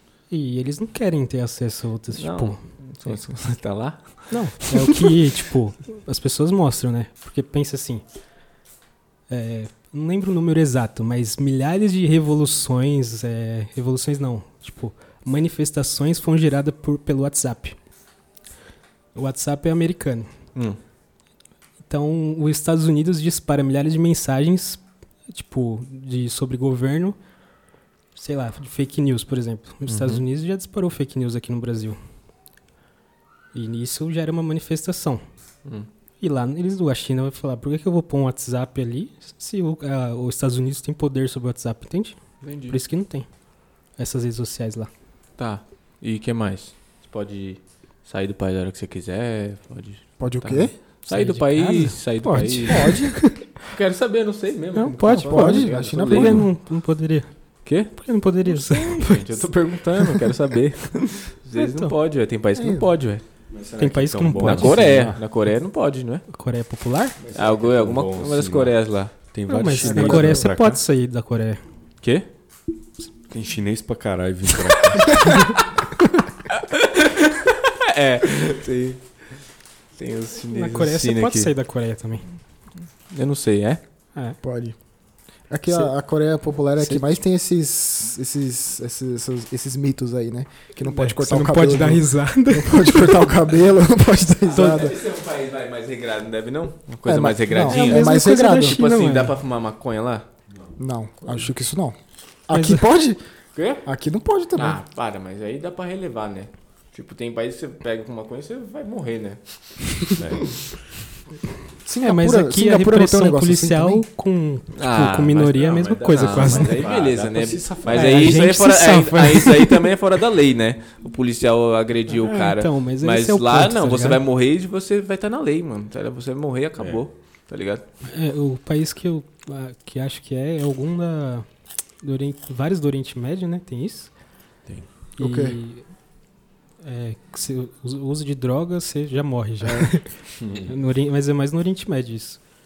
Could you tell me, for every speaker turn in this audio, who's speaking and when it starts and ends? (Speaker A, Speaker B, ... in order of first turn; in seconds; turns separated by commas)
Speaker A: 0.3-3.2, Speaker B: 2.1-4.7, Speaker A: 4.3-8.0, Speaker A: 9.3-17.8, Speaker A: 19.1-20.3, Speaker A: 21.8-27.2, Speaker A: 28.1-32.0, Speaker B: 29.9-30.2, Speaker A: 33.5-35.2, Speaker A: 36.2-43.3, Speaker B: 42.4-42.8, Speaker A: 44.0-44.9, Speaker B: 45.4-53.1, Speaker C: 50.2-50.7, Speaker A: 51.1-53.5, Speaker C: 52.7-53.2, Speaker B: 53.6-56.5, Speaker A: 54.7-57.3, Speaker C: 55.1-56.5, Speaker B: 57.6-63.2, Speaker A: 57.9-60.2, Speaker A: 61.5-61.9, Speaker C: 62.5-62.9, Speaker D: 63.5-65.2, Speaker A: 63.8-65.0, Speaker B: 64.4-66.3, Speaker A: 66.3-67.2, Speaker D: 67.2-70.8, Speaker B: 67.3-69.1, Speaker A: 69.5-71.6, Speaker C: 69.8-70.5, Speaker B: 72.0-72.3, Speaker D: 73.3-75.4, Speaker B: 76.5-79.4, Speaker B: 80.0-81.5, Speaker A: 80.5-82.3, Speaker B: 83.1-83.8, Speaker C: 84.4-84.8, Speaker C: 85.5-95.0, Speaker A: 86.8-87.0, Speaker A: 90.8-93.3, Speaker B: 94.5-100.2, Speaker A: 94.5-94.9, Speaker C: 97.0-98.8, Speaker A: 97.6-99.3, Speaker C: 100.8-103.2, Speaker A: 102.5-102.8, Speaker B: 103.5-103.9, Speaker C: 103.8-104.8, Speaker B: 104.5-110.2, Speaker D: 110.2-110.6, Speaker C: 111.8-114.0, Speaker A: 112.0-116.8, Speaker B: 114.8-127.8, Speaker D: 115.6-118.4, Speaker A: 117.9-119.9, Speaker A: 122.1-124.2, Speaker D: 126.8-127.0, Speaker A: 128.1-131.5, Speaker A: 132.0-134.1, Speaker A: 135.2-135.9, Speaker C: 135.2-135.6, Speaker A: 136.8-142.4, Speaker C: 139.6-139.9, Speaker D: 140.4-140.7